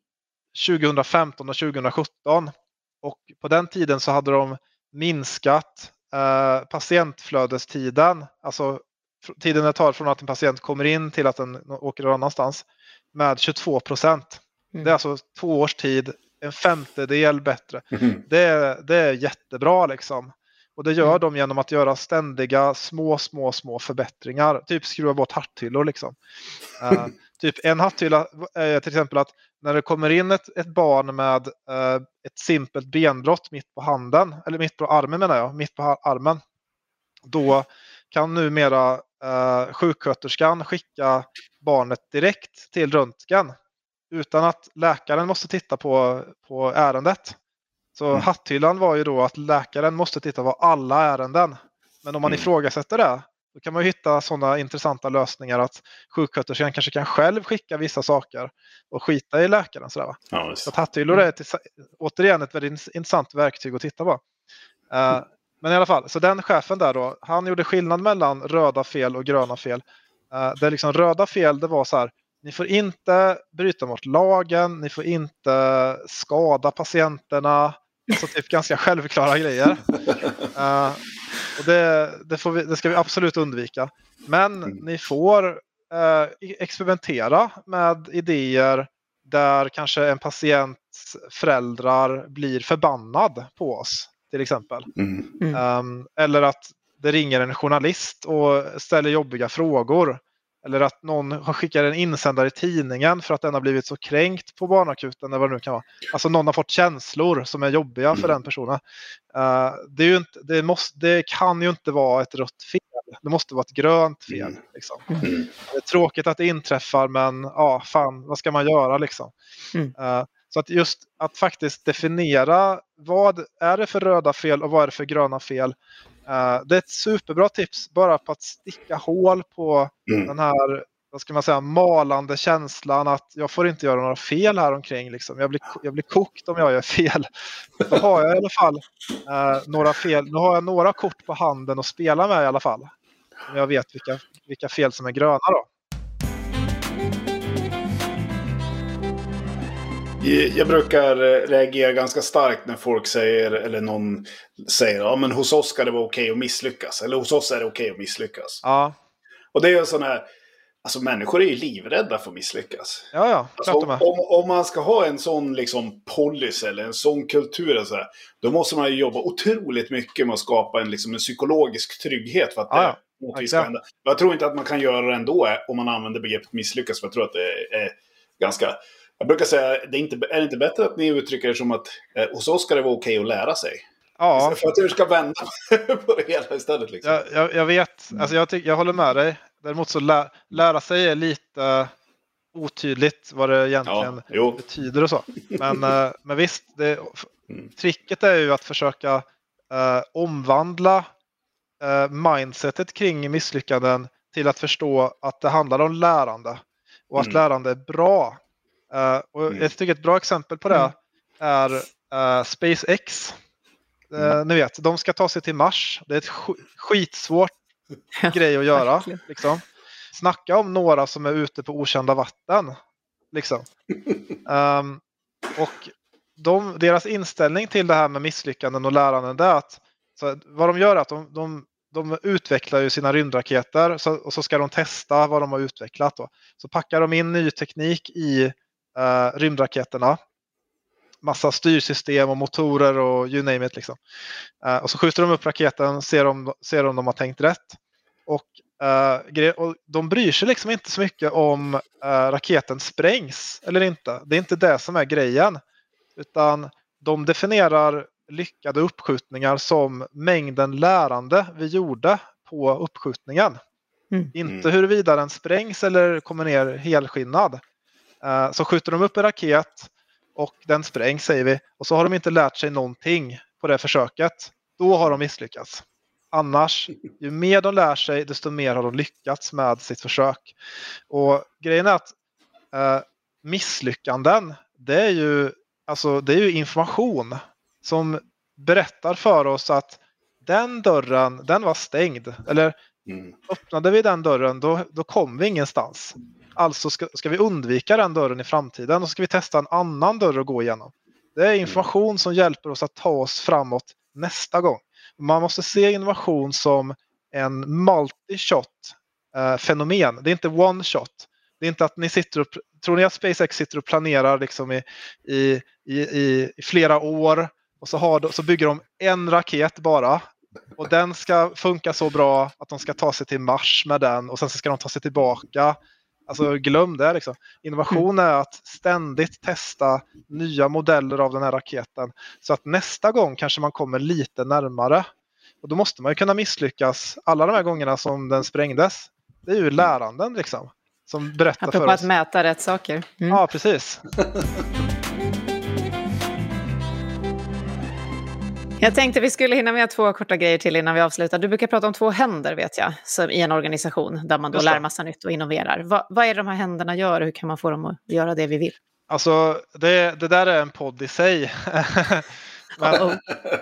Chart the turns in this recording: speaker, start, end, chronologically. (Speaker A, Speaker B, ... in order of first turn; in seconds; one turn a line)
Speaker A: 0.5-26.1
Speaker B: 17.9-18.2
Speaker A: 26.8-36.4
Speaker A: 37.3-43.5
Speaker A: 44.1-47.4
Speaker A: 48.0-64.2
Speaker B: 60.3-60.7
Speaker A: 64.9-79.9
Speaker A: 80.5-81.0
Speaker A: 81.5-94.9
Speaker B: 95.0-95.3
Speaker A: 95.5-108.8
Speaker A: 109.3-119.3
Speaker B: 114.3-114.6
Speaker B: 115.2-115.5
Speaker A: 120.0-125.7
Speaker A: 126.3-142.9
Speaker A: 143.5-145.7
Speaker B: 150.2-158.6
Speaker A: 158.6-158.9
Speaker B: 159.5-160.2
Speaker B: 160.8-183.8
Speaker A: 163.1-164.0
Speaker A: 172.7-173.7
Speaker A: 184.2-184.6
Speaker B: 184.3-187.2
Speaker A: 187.0-191.9
Speaker A: 192.5-201.1
Speaker B: 193.8-194.6
Speaker B: 195.4-195.7
Speaker A: 201.8-208.4
Speaker A: 208.9-213.3
Speaker A: 214.1-217.5
Speaker C: 218.2-219.2
Speaker A: 218.3-222.8
Speaker A: 223.3-223.7
Speaker A: 224.4-225.0
Speaker A: 225.6-240.2
Speaker A: 241.2-244.0
Speaker A: 244.6-255.6
Speaker A: 256.1-263.6
Speaker A: 264.3-267.6
Speaker A: 268.2-280.5
Speaker A: 281.1-282.1
Speaker A: 282.7-292.7
Speaker B: 293.1-293.4
Speaker A: 293.5-335.1
Speaker A: 335.6-342.1
Speaker C: 341.6-343.4
Speaker A: 343.3-344.0
Speaker C: 348.8-358.7
Speaker A: 359.1-363.1
Speaker C: 362.8-363.2